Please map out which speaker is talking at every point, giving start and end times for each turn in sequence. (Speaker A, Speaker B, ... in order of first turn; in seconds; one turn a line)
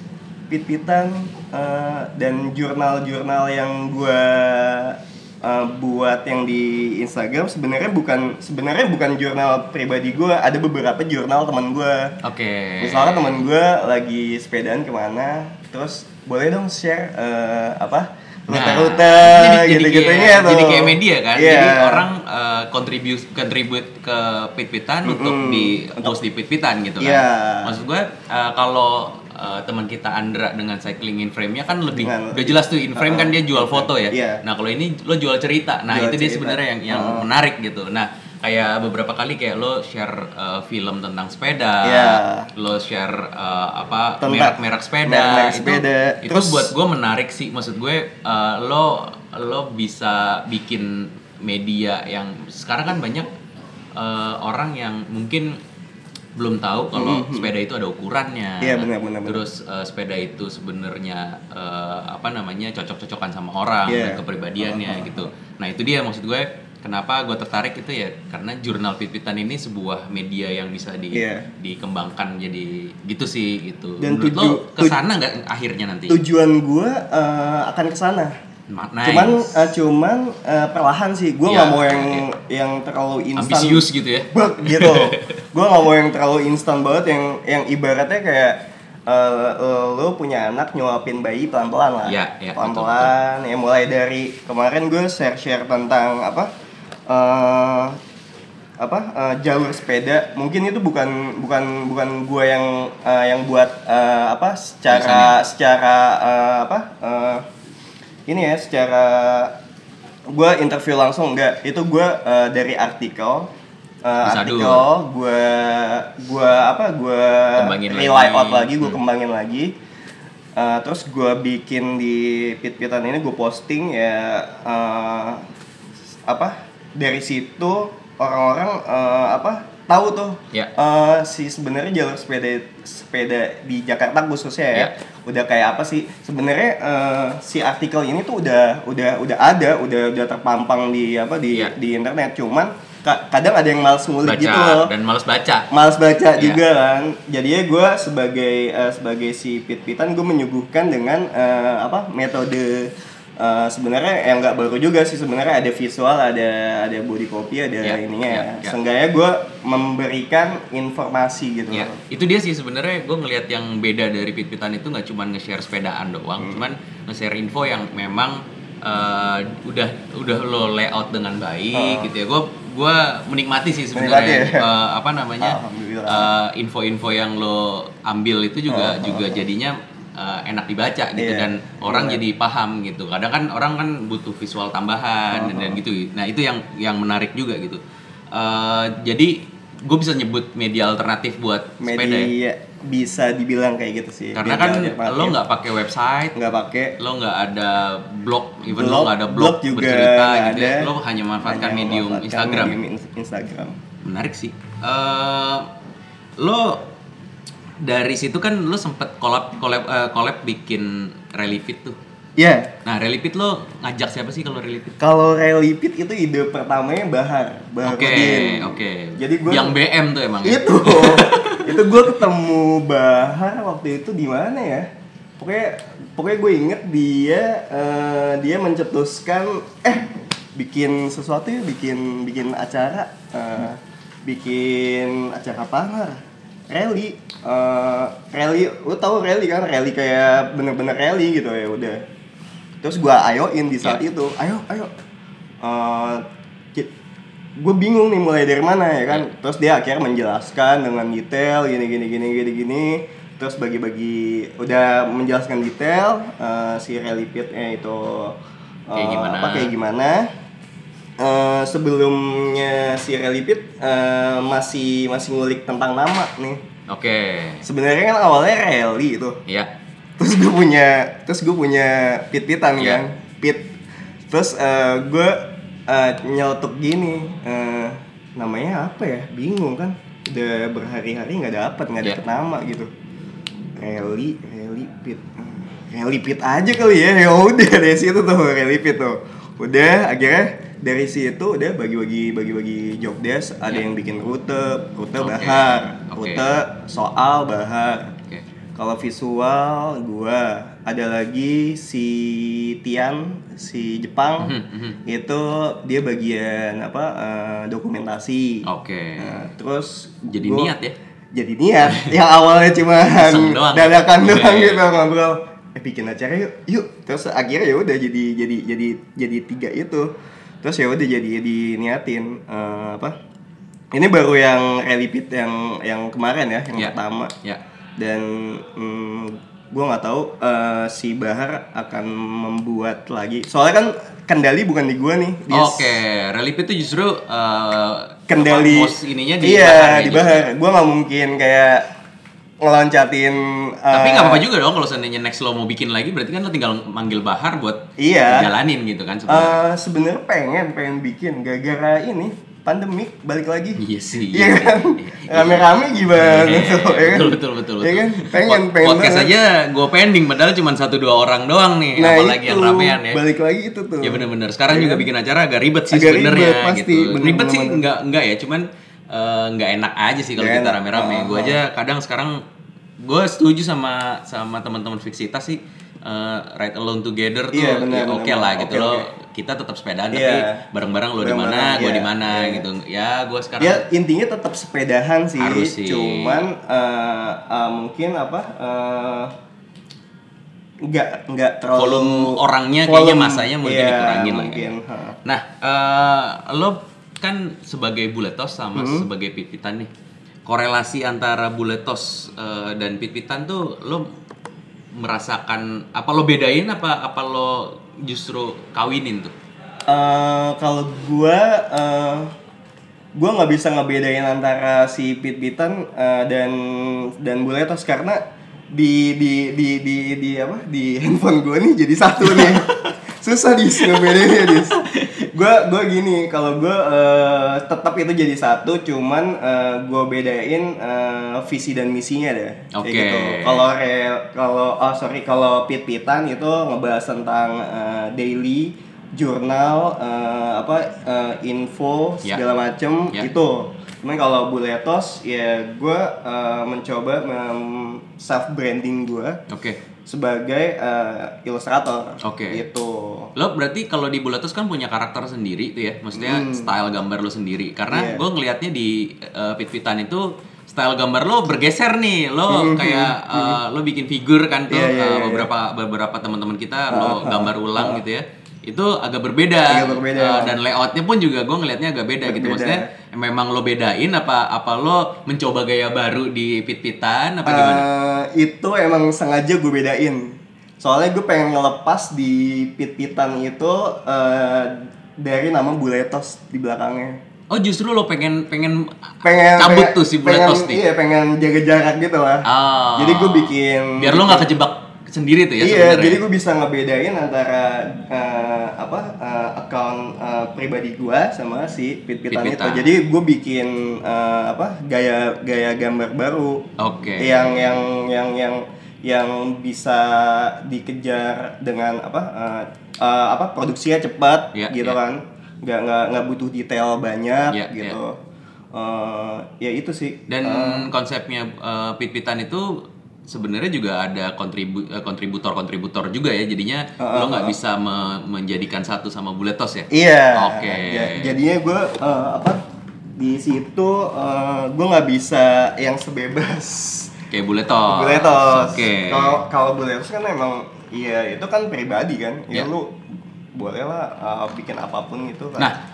Speaker A: 0.5-12.2
Speaker B: 12.2-13.4
Speaker A: 12.8-22.1
Speaker B: 18.5-53.3
Speaker A: 25.1-26.2
Speaker A: 27.0-27.8
Speaker A: 32.0-34.4
Speaker A: 35.9-37.3
Speaker A: 41.8-42.5
Speaker A: 44.2-46.7
Speaker B: 54.0-55.6
Speaker B: 56.4-76.2
Speaker A: 56.9-57.5
Speaker A: 58.6-59.4
Speaker A: 63.9-65.3
Speaker A: 71.1-71.5
Speaker A: 74.0-75.0
Speaker A: 76.1-78.3
Speaker B: 78.7-79.8
Speaker A: 79.0-96.5
Speaker B: 81.5-82.3
Speaker B: 83.4-85.4
Speaker B: 92.1-93.1
Speaker A: 97.1-98.0
Speaker A: 98.8-107.4
Speaker B: 104.9-105.4
Speaker A: 108.3-109.5
Speaker A: 110.3-113.5
Speaker A: 114.0-119.8
Speaker B: 114.2-114.9
Speaker B: 117.6-119.0
Speaker A: 120.6-125.5
Speaker A: 126.2-144.9
Speaker B: 144.2-145.7
Speaker A: 145.7-162.0
Speaker B: 146.4-146.6
Speaker B: 157.8-158.8
Speaker B: 161.7-187.8
Speaker A: 166.4-166.6
Speaker A: 171.7-172.1
Speaker A: 173.9-174.7
Speaker A: 175.4-176.3
Speaker A: 178.7-179.4
Speaker A: 181.2-182.2
Speaker A: 185.3-185.8
Speaker B: 188.3-192.3
Speaker A: 191.8-195.4
Speaker B: 194.3-196.4
Speaker A: 196.3-197.0
Speaker B: 197.0-202.8
Speaker A: 198.7-203.8
Speaker B: 204.0-205.7
Speaker B: 206.4-206.9
Speaker B: 207.8-212.0
Speaker A: 212.4-212.7
Speaker B: 212.8-215.0
Speaker A: 215.0-219.8
Speaker B: 217.8-222.2
Speaker A: 220.4-224.9
Speaker A: 225.4-242.1
Speaker A: 242.8-244.9
Speaker A: 245.6-246.9
Speaker A: 247.6-260.3
Speaker B: 258.9-259.7
Speaker A: 261.2-266.6
Speaker B: 266.9-267.7
Speaker A: 267.6-269.4
Speaker A: 270.2-273.7
Speaker A: 274.3-282.9
Speaker A: 283.8-298.1
Speaker B: 295.2-296.5
Speaker A: 298.8-308.7
Speaker B: 304.4-305.0
Speaker B: 308.7-309.3
Speaker A: 309.2-310.7
Speaker B: 310.3-311.0
Speaker A: 311.3-320.1
Speaker B: 311.9-312.1
Speaker B: 313.1-314.9
Speaker A: 320.6-323.1
Speaker A: 323.9-327.3
Speaker B: 326.8-327.6
Speaker A: 328.0-336.0
Speaker B: 335.5-340.5
Speaker A: 338.3-341.9
Speaker A: 342.6-344.4
Speaker B: 343.9-349.6
Speaker A: 348.0-348.5
Speaker A: 349.3-359.3
Speaker B: 353.8-363.2
Speaker A: 362.0-365.1
Speaker B: 364.0-372.4
Speaker A: 365.9-367.8
Speaker A: 370.4-371.6
Speaker B: 373.0-383.9
Speaker A: 377.5-379.1
Speaker A: 380.1-380.6
Speaker A: 381.2-382.6
Speaker A: 383.6-389.3
Speaker B: 385.4-386.5
Speaker A: 390.8-395.2
Speaker B: 391.8-394.7
Speaker B: 395.2-399.9
Speaker A: 398.8-399.1
Speaker B: 400.5-404.1
Speaker B: 405.0-409.3
Speaker A: 409.9-412.3
Speaker A: 413.1-449.4
Speaker B: 422.2-422.9
Speaker B: 423.8-425.3
Speaker B: 432.7-433.7
Speaker B: 449.5-449.8
Speaker A: 450.1-453.3
Speaker B: 452.2-452.6
Speaker B: 453.4-477.9
Speaker A: 456.1-456.7
Speaker A: 457.9-458.2
Speaker A: 462.5-463.6
Speaker A: 464.7-465.5
Speaker A: 466.9-468.0
Speaker A: 469.7-470.6
Speaker A: 472.2-472.9
Speaker A: 477.4-487.2
Speaker B: 487.5-490.8
Speaker A: 489.2-494.5
Speaker B: 492.4-496.2
Speaker A: 495.6-506.7
Speaker B: 502.3-503.0
Speaker B: 506.8-507.8
Speaker A: 507.2-518.2
Speaker B: 514.5-515.0
Speaker B: 517.5-518.0
Speaker A: 518.7-520.9
Speaker B: 520.3-531.4
Speaker A: 527.0-527.5
Speaker A: 529.9-532.6
Speaker A: 533.2-537.1
Speaker B: 537.3-539.4
Speaker A: 537.9-543.0
Speaker A: 543.5-545.7